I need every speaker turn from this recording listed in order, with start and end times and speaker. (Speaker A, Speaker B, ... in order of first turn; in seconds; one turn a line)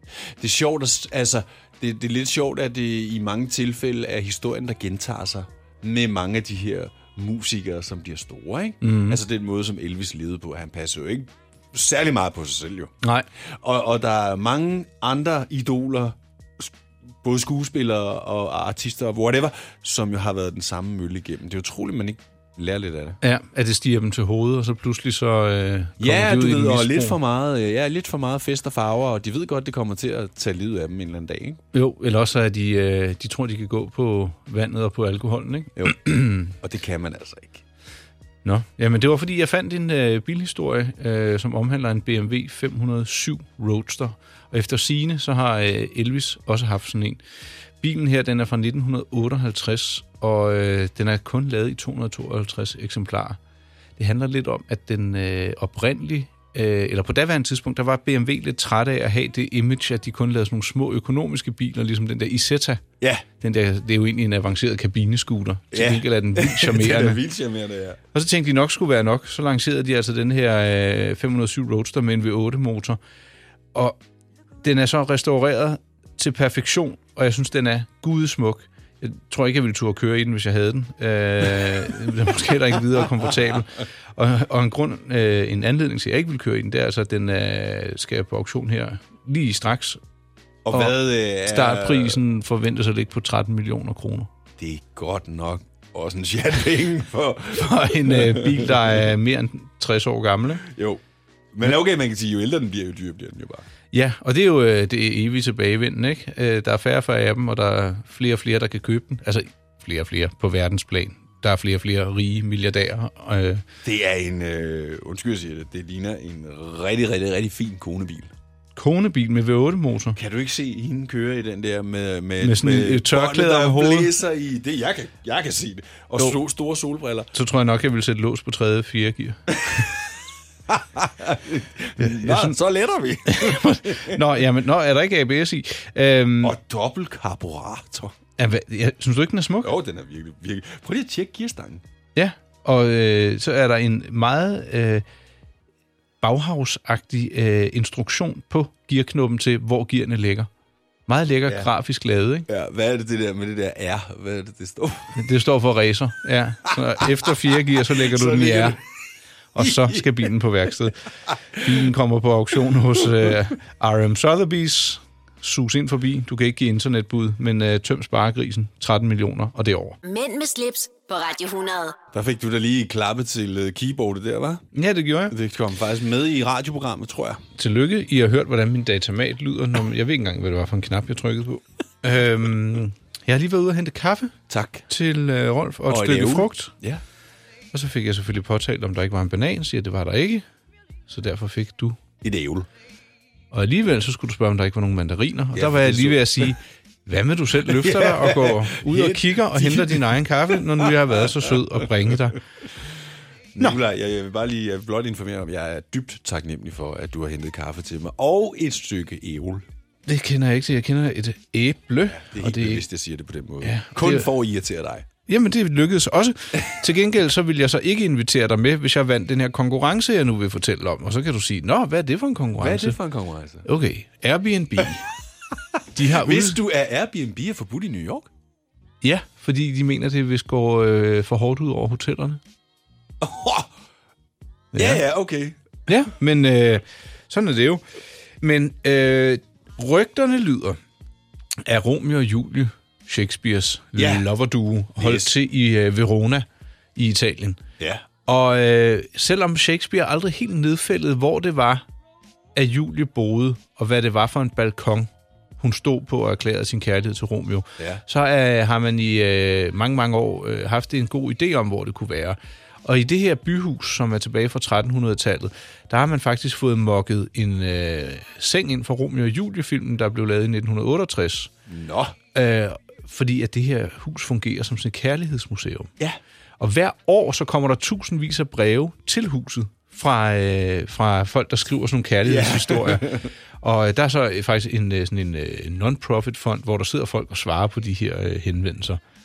Speaker A: 0.4-12.9
Speaker B: 8.8-9.2
Speaker A: 13.5-23.2
Speaker B: 23.2-27.2
Speaker A: 26.0-31.6
Speaker B: 31.7-36.5
Speaker A: 35.8-37.6
Speaker B: 38.5-47.2
Speaker B: 47.8-53.4
Speaker B: 54.0-62.8
Speaker B: 63.4-67.2
Speaker A: 65.7-68.0
Speaker B: 68.1-73.0
Speaker B: 74.6-90.0
Speaker A: 90.7-92.2
Speaker B: 90.7-94.3
Speaker A: 94.6-98.8
Speaker B: 97.5-100.7
Speaker A: 100.6-101.0
Speaker A: 101.5-103.7
Speaker B: 103.9-113.6
Speaker A: 113.8-118.3
Speaker B: 118.8-120.2
Speaker A: 120.2-127.3
Speaker B: 122.4-124.1
Speaker B: 127.3-129.9
Speaker A: 130.7-134.2
Speaker B: 132.0-132.6
Speaker B: 133.3-136.6
Speaker A: 136.4-138.2
Speaker B: 138.4-139.7
Speaker A: 139.6-141.8
Speaker B: 142.2-145.1
Speaker B: 146.2-150.5
Speaker B: 151.1-152.5
Speaker A: 152.5-155.1
Speaker B: 155.2-158.8
Speaker A: 157.8-158.8
Speaker B: 159.6-161.0
Speaker A: 159.6-160.3
Speaker B: 161.6-170.0
Speaker C: 170.0-172.0
Speaker A: 172.1-174.7
Speaker B: 174.7-175.3
Speaker A: 175.3-177.4
Speaker B: 177.6-184.3
Speaker A: 184.5-184.9
Speaker B: 184.9-186.7
Speaker A: 185.9-187.0
Speaker B: 187.7-190.4
Speaker B: 191.1-192.0
Speaker A: 192.2-192.7
Speaker B: 193.5-202.4
Speaker A: 195.5-196.6
Speaker A: 197.6-201.9
Speaker A: 203.6-209.7
Speaker B: 210.1-212.8
Speaker A: 212.1-215.1
Speaker B: 213.6-214.3
Speaker B: 215.3-223.0
Speaker A: 222.6-223.7
Speaker B: 223.7-225.1
Speaker B: 225.9-226.6
Speaker A: 226.0-228.3
Speaker B: 229.0-232.4
Speaker A: 233.2-233.7
Speaker B: 234.7-235.0
Speaker A: 234.8-235.6
Speaker B: 235.9-237.8
Speaker B: 238.4-240.8
Speaker B: 241.7-247.6
Speaker A: 244.0-244.3
Speaker A: 245.0-245.3
Speaker A: 247.8-248.1
Speaker B: 248.3-251.8
Speaker B: 252.6-255.1
Speaker B: 255.6-271.5
Speaker A: 271.7-272.2
Speaker B: 272.3-275.9
Speaker B: 276.6-289.0
Speaker A: 282.2-283.3